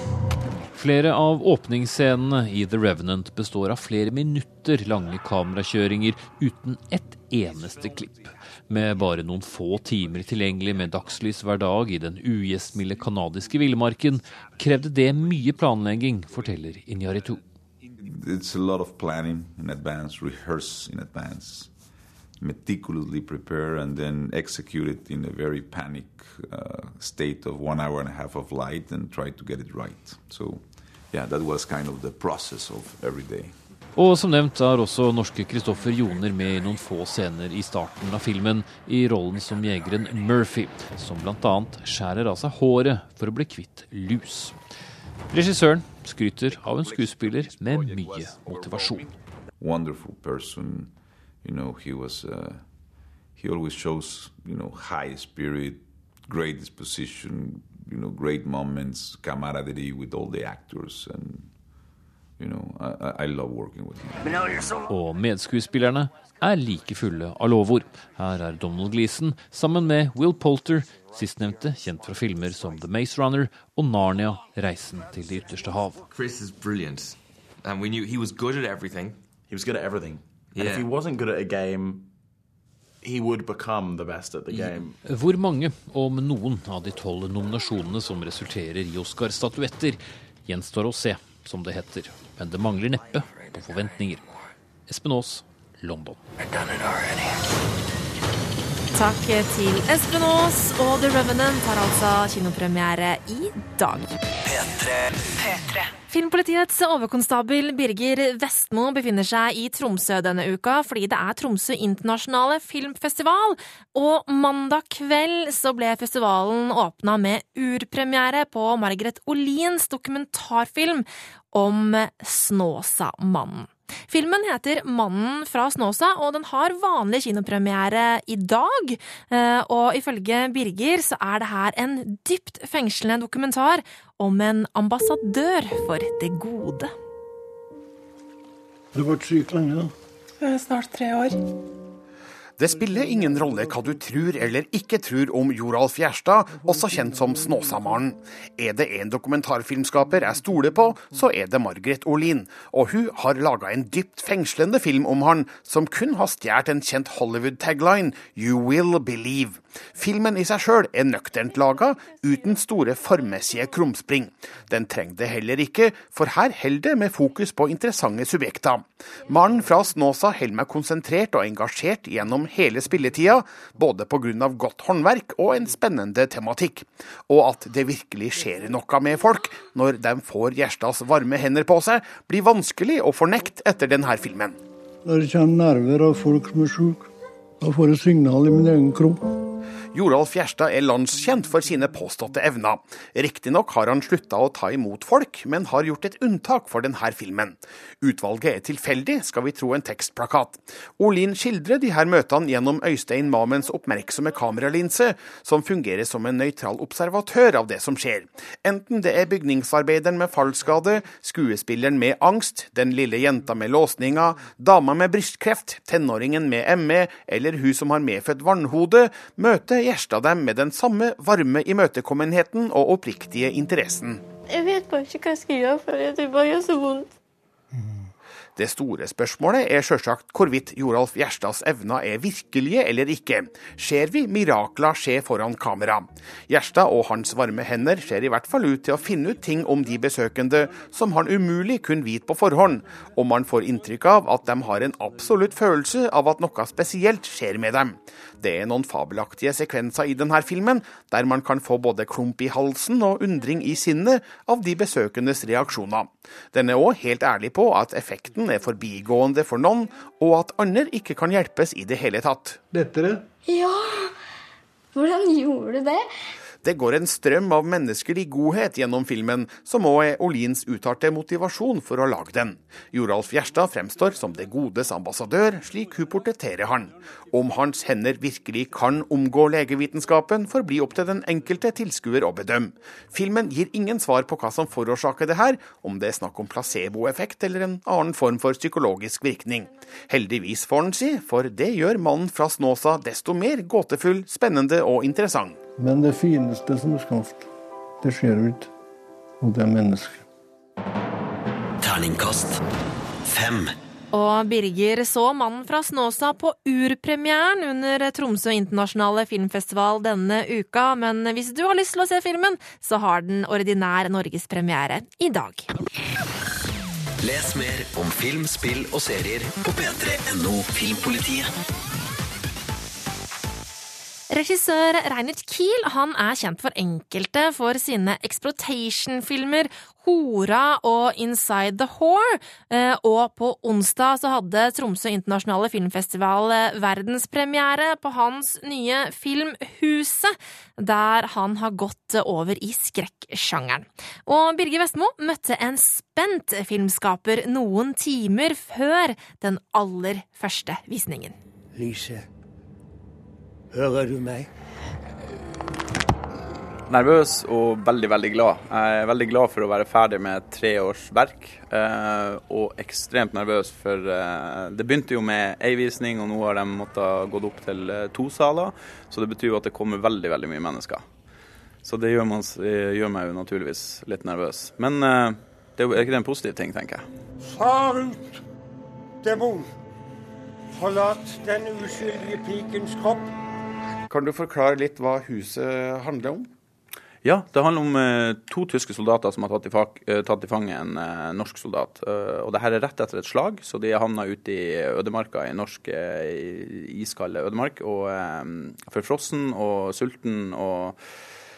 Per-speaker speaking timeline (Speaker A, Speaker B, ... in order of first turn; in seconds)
Speaker A: 0.7-17.4, 33.9-44.6, 45.3-49.1, 64.9-76.0, 85.0-94.2, 94.9-96.2
Speaker B: 18.0-21.7, 22.4-33.6, 46.6-61.6, 62.4-64.5
Speaker C: 76.1-79.2, 80.5-80.9
Speaker D: 79.5-82.1, 83.0-85.0
Speaker E: 96.4-97.2, 104.4-105.0, 301.8-302.6, 303.2-303.8, 317.2-321.5
Speaker F: 98.9-104.1, 106.1-136.9, 304.1-315.7, 324.3-351.4
Speaker G: 138.9-139.9, 185.0-187.1, 187.6-189.2, 262.7-263.2, 295.8-297.5, 298.0-298.7, 299.4-300.2
Speaker H: 142.6-184.6, 189.9-224.2, 228.6-262.6, 266.6-295.6, 384.1-386.5
Speaker I: 224.5-227.1, 263.5-263.8, 264.9-266.0
Speaker J: 356.9-371.0, 371.8-377.1, 387.2-401.0
Speaker K: 377.4-378.4, 379.2-379.7, 380.7-383.3